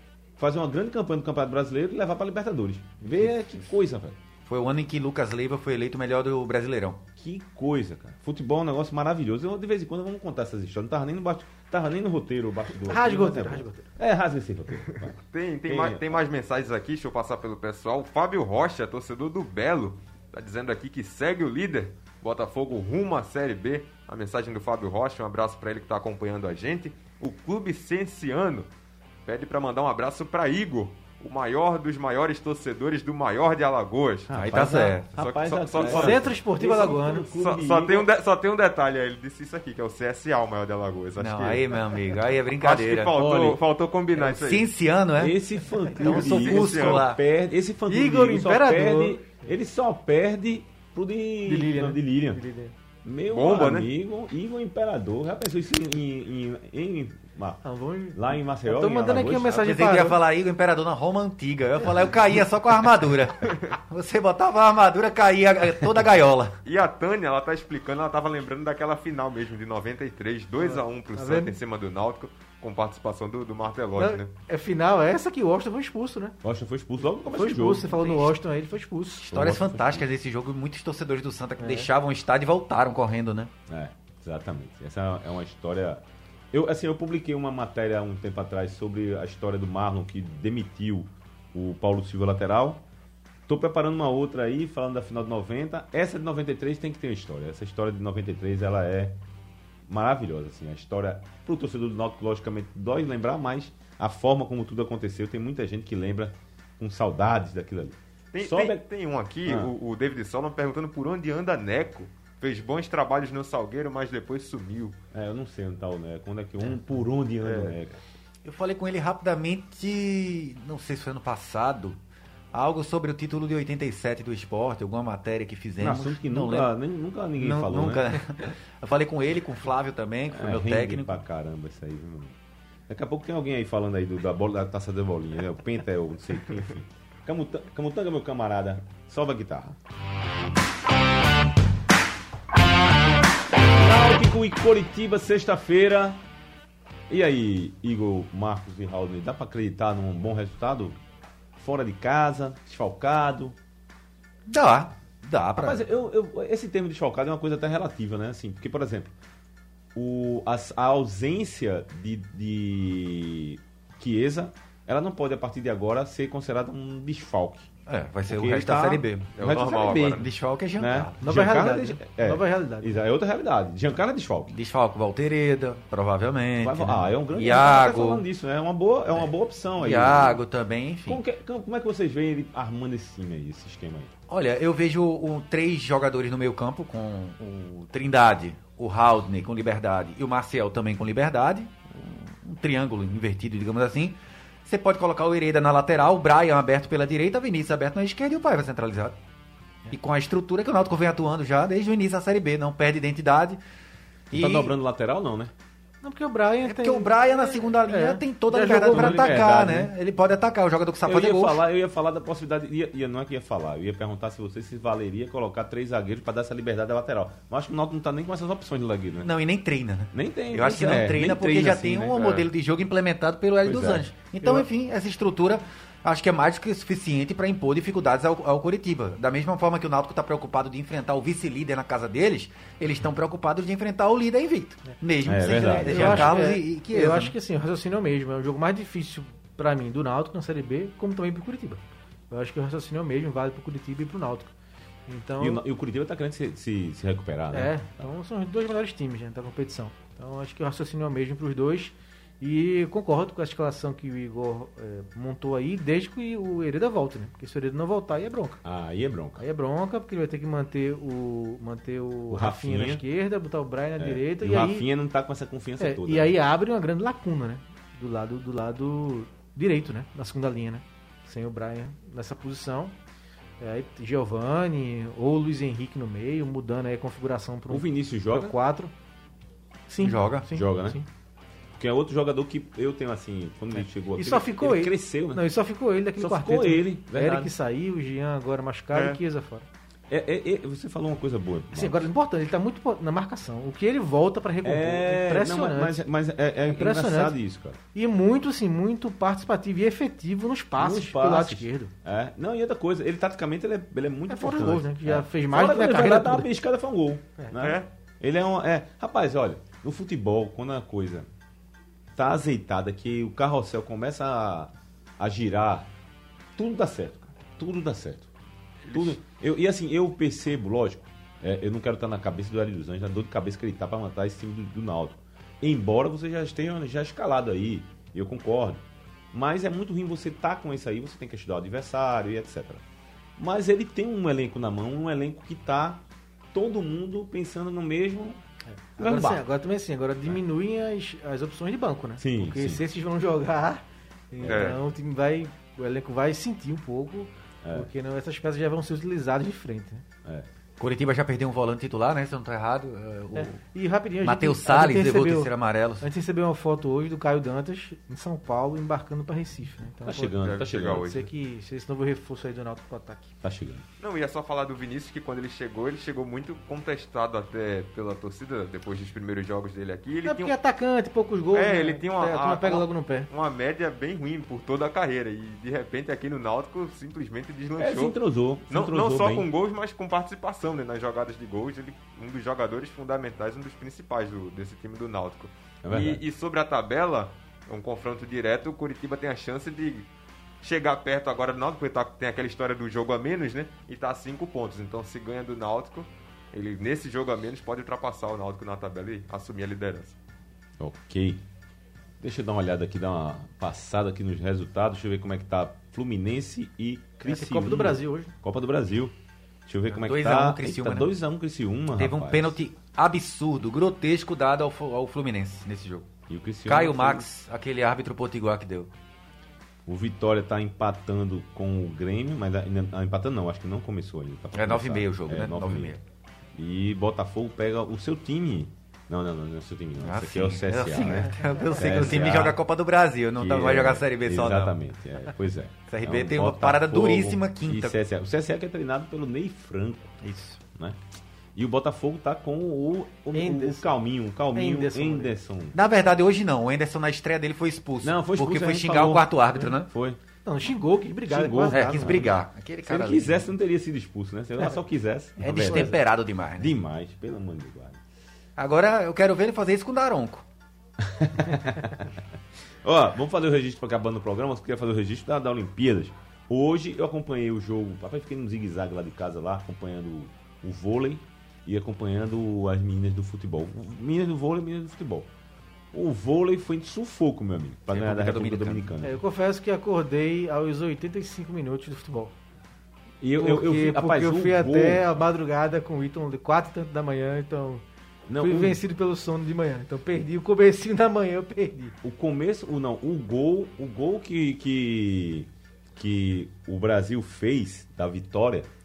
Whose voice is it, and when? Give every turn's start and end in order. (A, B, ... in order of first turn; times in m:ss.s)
0:00.4-0:04.2 A
0:04.5-0:07.0 B
0:07.2-0:16.2 A
0:12.8-0:13.9 C
0:15.1-0:28.7 D
0:29.3-0:36.3 D
0:34.3-0:38.1 A
0:34.3-0:35.1 B
0:35.8-0:37.3 C
0:37.3-0:42.0 D
0:41.2-0:43.2 B
0:42.6-0:44.7 D
0:43.2-0:43.6 A
0:44.1-0:47.2 B
0:45.2-0:52.4 A
0:46.0-0:47.0 D
0:47.9-0:49.2 C
0:51.4-0:52.7 C
0:53.0-0:57.6 A
0:53.3-0:53.9 D
0:57.6-1:00.2 C
0:58.1-0:59.7 A
0:59.6-1:06.6 B
1:06.6-1:14.3 D
1:10.6-1:11.6 C
1:14.0-1:16.4 C
1:16.4-1:18.2 A
1:17.3-1:19.3 C
1:19.3-1:23.5 B
1:19.3-1:20.1 A
1:21.6-1:21.9 C
1:23.7-1:32.8 A
1:33.5-1:39.2 A
1:39.9-1:48.8 A
1:48.3-1:55.0 D
1:49.4-1:49.7 A
1:55.1-1:58.0 A
1:57.4-1:57.8 D
1:58.4-2:02.0 B
2:02.5-2:06.7 B
2:05.8-2:08.2 A
2:07.4-2:11.2 B
2:10.3-2:12.4 A
2:12.9-2:19.8 A
2:23.8-2:26.2 A
2:27.1-2:31.0 A
2:31.6-2:33.6 A
2:34.5-2:35.8 B
2:35.6-2:39.1 A
2:40.0-2:47.7 A
2:47.9-2:49.3 B
2:48.3-2:50.2 A
2:49.4-2:50.2 D
2:50.0-2:51.1 B
2:50.8-2:54.5 A
2:51.2-2:53.0 C
2:54.5-2:58.2 B
2:56.6-3:00.4 A
2:59.8-3:01.2 B
3:01.1-3:04.1 A
3:04.3-3:19.2 B
3:19.9-3:23.6 B
3:24.3-3:25.5 A
3:24.3-3:24.7 B
3:26.0-3:29.4 C
3:26.6-3:31.6 B
3:28.9-3:29.9 A
3:31.0-3:39.3 A
3:39.2-3:57.3 B
3:40.1-3:42.4 A
3:43.6-3:44.0 A
3:55.2-3:56.4 A
3:55.8-4:04.5 C
4:05.1-4:05.6 C
4:05.4-4:07.8 A
4:07.5-4:18.6 C
4:18.6-4:19.4 A
4:19.4-4:24.9 C
4:22.3-4:23.0 A
4:24.0-4:26.4 A
4:25.8-4:32.9 C
4:33.6-4:38.9 C
4:37.7-4:38.5 A
4:39.9-4:41.1 C
4:40.0-4:40.5 B
4:40.5-4:41.0 A
4:41.7-4:45.4 A
4:44.2-4:49.7 C
4:46.2-4:47.5 A
4:48.9-4:49.2 D
4:50.1-4:52.1 A
4:51.7-4:56.0 C
4:54.6-4:57.8 A
4:56.7-4:57.4 C
4:57.9-5:01.9 C
5:00.8-5:11.3 A
5:04.3-5:06.5 C
5:07.6-5:07.9 D
5:12.2-5:15.9 A
5:16.6-5:18.3 A
5:18.9-5:19.2 D
5:18.9-5:32.8 A
5:33.4-5:38.4 A
5:38.9-5:50.0 C
5:39.0-5:39.4 A
5:42.2-5:42.8 A
5:44.4-5:44.8 A
5:44.5-5:44.8 D
5:47.6-5:47.9 A
5:50.8-5:53.6 B
5:53.4-6:00.4 C
5:54.2-5:56.1 B
6:00.0-6:01.2 A
6:00.4-6:01.3 D
6:00.9-6:03.3 C
6:03.4-6:03.8 A
6:04.0-6:10.5 D
6:10.2-6:13.3 C
6:11.5-6:18.2 D
6:17.8-6:19.5 A
6:18.7-6:30.1 D
6:25.8-6:26.2 A
6:30.6-6:40.2 D
6:40.8-6:41.4 A
6:42.2-6:49.1 A
6:47.3-6:48.3 C
6:49.7-6:52.6 A
6:49.9-6:51.1 B
6:52.0-6:56.1 B
6:56.3-6:57.3 A
6:56.7-6:58.9 B
6:59.9-7:05.9 A
7:04.5-7:06.0 B
7:06.6-7:12.6 A
7:10.0-7:14.8 B
7:13.4-7:20.2 A
7:15.9-7:18.0 B
7:20.2-7:20.6 B
7:21.6-7:25.8 A
7:23.3-7:24.0 C
7:24.5-7:25.4 C
7:25.7-7:29.9 B
7:28.0-7:30.2 A
7:30.4-7:32.3 C
7:31.3-7:32.3 A
7:31.7-7:33.4 B
7:32.8-7:36.0 A
7:35.4-7:36.7 B
7:36.6-7:38.0 A
7:38.6-7:40.4 B
7:41.0-7:42.2 A
7:42.8-7:55.3 A
7:55.9-7:59.2 A
7:57.9-7:58.9 B
7:59.0-8:02.3 C
8:03.2-8:05.2 A
8:03.4-8:07.8 C
8:08.3-8:08.8 A
8:08.4-8:12.0 C
8:12.0-8:18.7 A